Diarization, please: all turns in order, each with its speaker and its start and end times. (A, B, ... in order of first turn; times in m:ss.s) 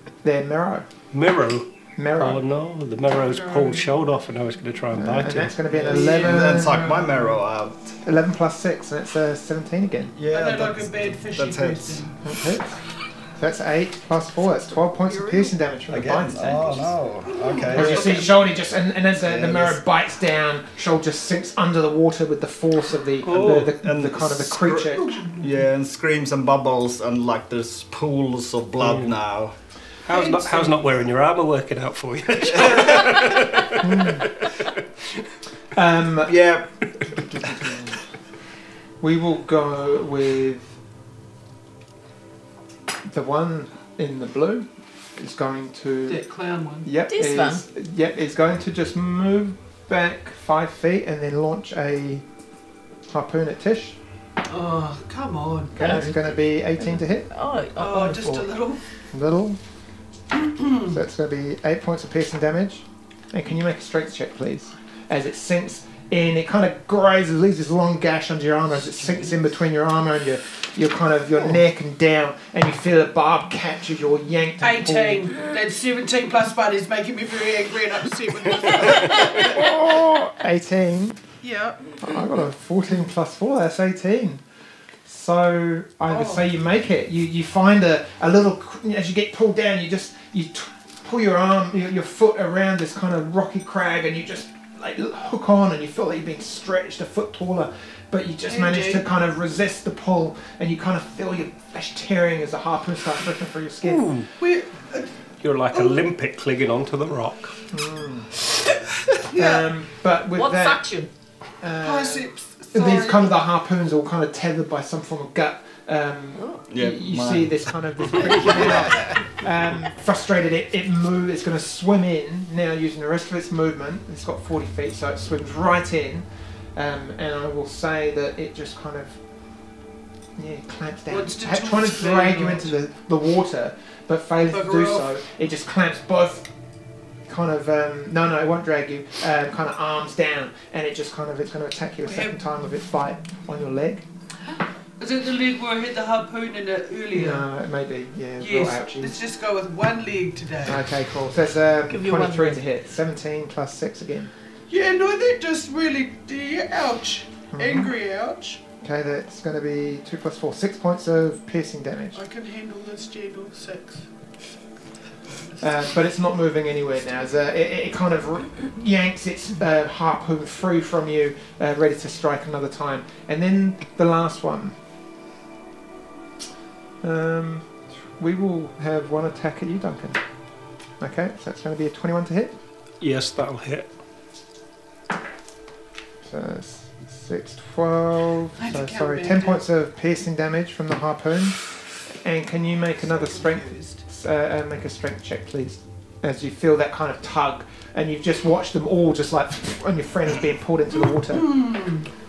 0:00.2-0:00.9 A
0:01.1-0:05.6 B
0:02.0-0:02.4 A
0:03.2-0:03.9 C
0:04.9-0:07.0 A
0:05.8-0:07.4 C
0:05.9-0:08.0 D
0:08.0-0:10.2 A
0:10.1-0:12.1 D
0:10.3-0:12.2 C
0:12.2-0:12.8 A
0:13.4-0:16.9 A
0:15.0-0:15.5 C
0:15.9-0:18.3 D
0:17.3-0:18.4 C
0:17.7-0:25.1 A
0:19.2-0:19.8 D
0:23.2-0:23.7 B
0:23.3-0:29.5 D
0:25.0-0:25.6 C
0:28.8-0:29.2 B
0:30.0-0:34.7 B
0:30.1-0:30.8 C
0:33.8-0:34.3 A
0:35.7-0:36.3 A
0:36.3-0:36.7 D
0:37.1-0:38.0 A
0:39.0-0:40.7 A
0:43.1-0:46.2 A
0:46.1-0:46.9 C
0:46.8-0:52.2 A
0:47.1-0:47.6 E
0:53.1-0:54.0 A
0:54.4-0:56.0 C
0:55.7-0:57.3 A
0:55.8-0:56.2 E
0:57.3-0:58.5 E
0:57.8-0:58.8 C
0:59.1-0:59.6 A
1:00.3-1:00.9 C
1:00.8-1:15.3 A
1:14.6-1:19.6 C
1:19.0-1:21.2 A
1:21.4-1:22.0 C
1:22.0-1:24.4 A
1:25.1-1:44.1 A
1:26.1-1:26.5 C
1:38.5-1:39.1 C
1:43.8-1:44.3 B
1:44.4-1:45.1 C
1:45.4-1:47.6 B
1:47.7-1:48.3 A
1:49.1-1:49.7 C
1:49.3-1:50.9 A
1:50.4-1:51.1 E
1:51.6-2:09.2 A
1:51.8-1:53.3 C
1:56.4-1:56.6 E
1:56.7-1:57.6 D
2:10.4-2:16.5 A
2:11.1-2:12.7 C
2:14.4-2:15.1 C
2:17.3-2:24.1 A
2:22.0-2:22.4 C
2:25.0-2:27.5 C
2:27.1-2:29.2 A
2:28.4-2:30.8 C
2:30.6-2:34.3 A
2:31.9-2:32.6 E
2:34.7-2:38.6 C
2:37.5-2:37.9 A
2:38.8-2:42.2 A
2:42.1-2:44.1 C
2:45.6-2:54.8 A
2:57.0-3:00.2 A
3:01.0-3:02.6 A
3:03.0-3:03.9 B
3:06.2-3:21.6 A
3:08.6-3:09.6 C
3:13.0-3:14.0 C
3:21.3-3:22.1 C